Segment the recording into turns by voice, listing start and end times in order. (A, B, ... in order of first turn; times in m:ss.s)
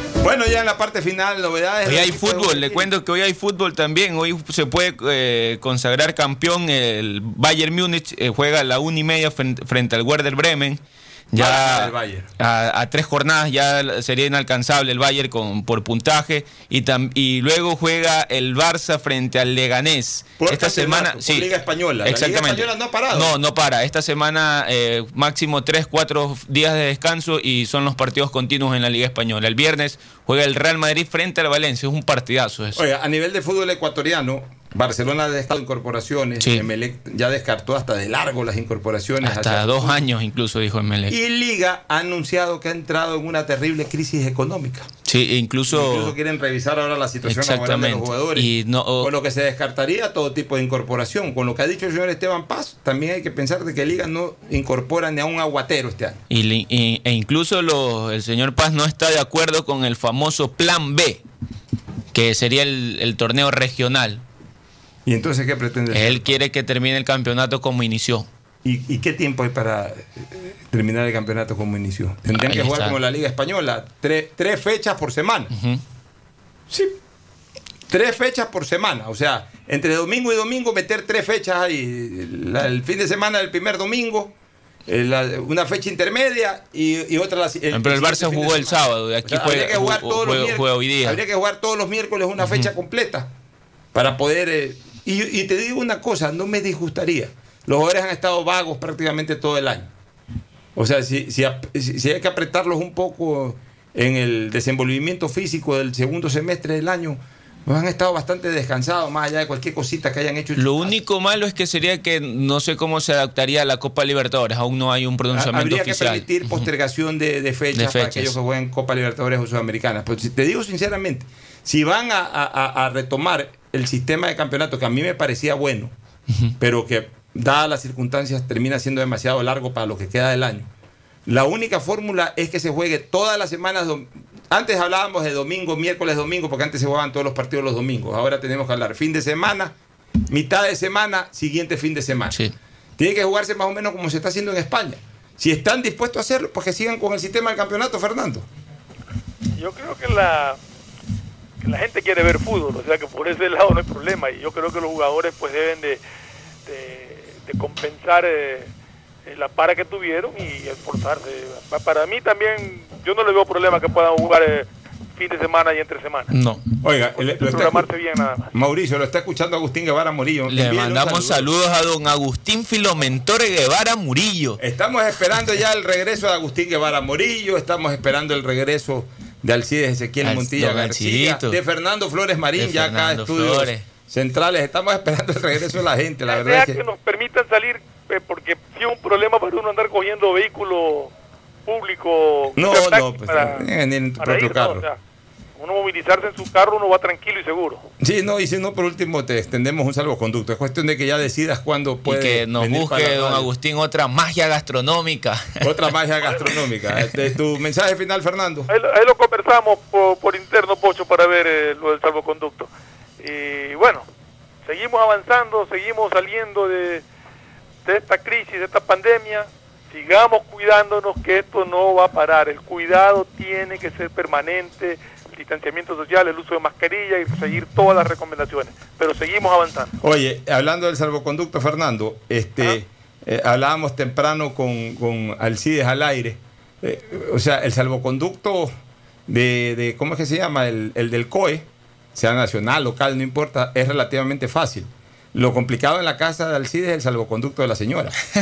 0:00.2-0:02.9 A
0:01.8-0:21.5 B
0:11.3-0:12.3 A
0:20.4-0:23.4 A
0:22.0-0:32.8 B
0:32.8-0:40.0 A
0:36.4-0:36.6 B
0:39.2-0:41.1 B
0:41.1-0:44.9 A
0:45.0-0:46.1 B
0:45.7-0:56.2 A
0:47.2-0:49.1 B
0:56.3-1:01.2 B
1:02.1-1:04.2 B
1:05.0-1:06.4 A
1:05.9-1:08.3 B
1:08.6-1:15.5 A
1:12.3-1:13.0 B
1:15.5-1:15.8 B
1:16.7-1:17.0 A
1:17.9-1:24.3 A
1:24.8-1:33.3 A
1:27.7-1:31.2 B
1:32.4-1:32.6 B
1:33.9-1:39.9 A
1:40.7-1:51.0 A
1:50.6-1:56.6 B
1:55.3-2:05.9 A
1:57.7-1:58.3 B
2:06.3-2:06.5 B
2:06.6-2:10.7 A
2:11.2-2:19.7 A
2:20.3-2:22.4 A
2:23.0-2:28.5 A
2:29.6-2:30.6 C
2:31.6-2:36.0 C
2:36.6-2:38.7 C
2:39.2-2:46.3 C
2:46.3-2:46.8 B
2:46.8-2:47.9 A
2:47.2-2:48.5 C
2:48.5-2:51.5 A
2:50.5-2:54.6 B
2:54.6-3:06.8 A
3:00.2-3:01.6 B
3:02.6-3:03.8 B
3:06.3-3:11.1 C
3:11.6-3:13.7 C
3:12.5-3:14.8 A
3:14.2-3:15.0 C
3:15.6-3:17.9 C
3:18.0-3:23.5 A
3:22.0-3:25.7 B
3:25.6-3:28.7 A
3:28.7-3:34.0 C
3:34.6-3:37.0 C
3:37.8-3:50.0 C
3:50.0-3:58.7 A
3:59.3-4:08.2 A